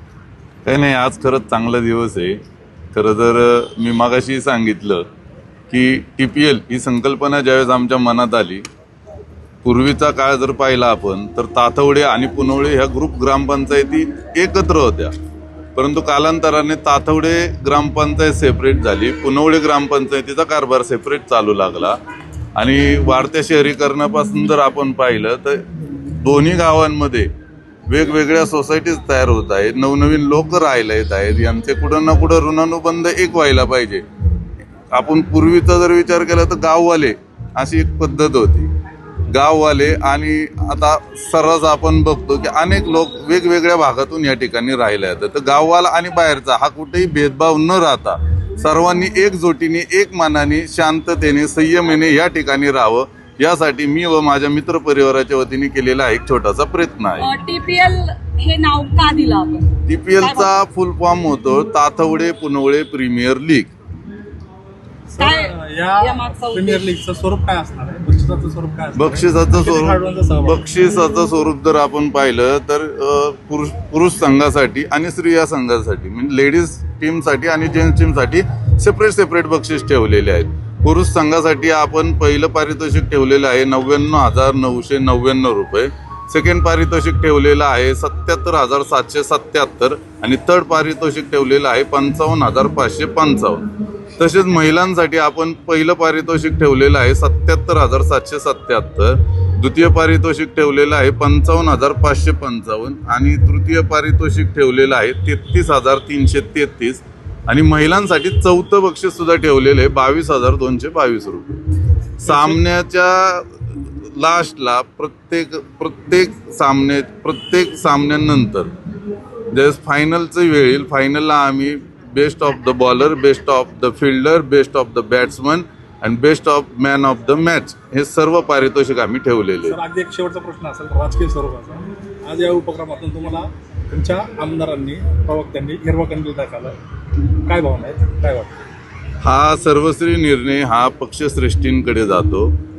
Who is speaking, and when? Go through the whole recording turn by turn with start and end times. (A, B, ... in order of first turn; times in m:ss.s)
0:00.6-0:02.4 A
0:02.9-0:05.0 A
0:05.7-0:08.6 A
0:09.6-0:15.1 A
0:15.8-0:22.0 A
0:22.6-0:27.3 A
0:27.9-0:34.0 A
0:34.9-0:38.7 A
0:39.3-0:57.3 A
0:57.2-1:00.6 B
0:59.9-1:03.7 A
1:05.1-1:10.6 C
1:05.2-1:06.8 B
1:09.0-1:51.5 A
1:52.2-1:53.5 A
1:54.0-1:58.7 A
1:59.5-2:09.8 A
2:09.6-2:16.7 C
2:17.4-2:18.5 C
2:19.2-2:22.5 A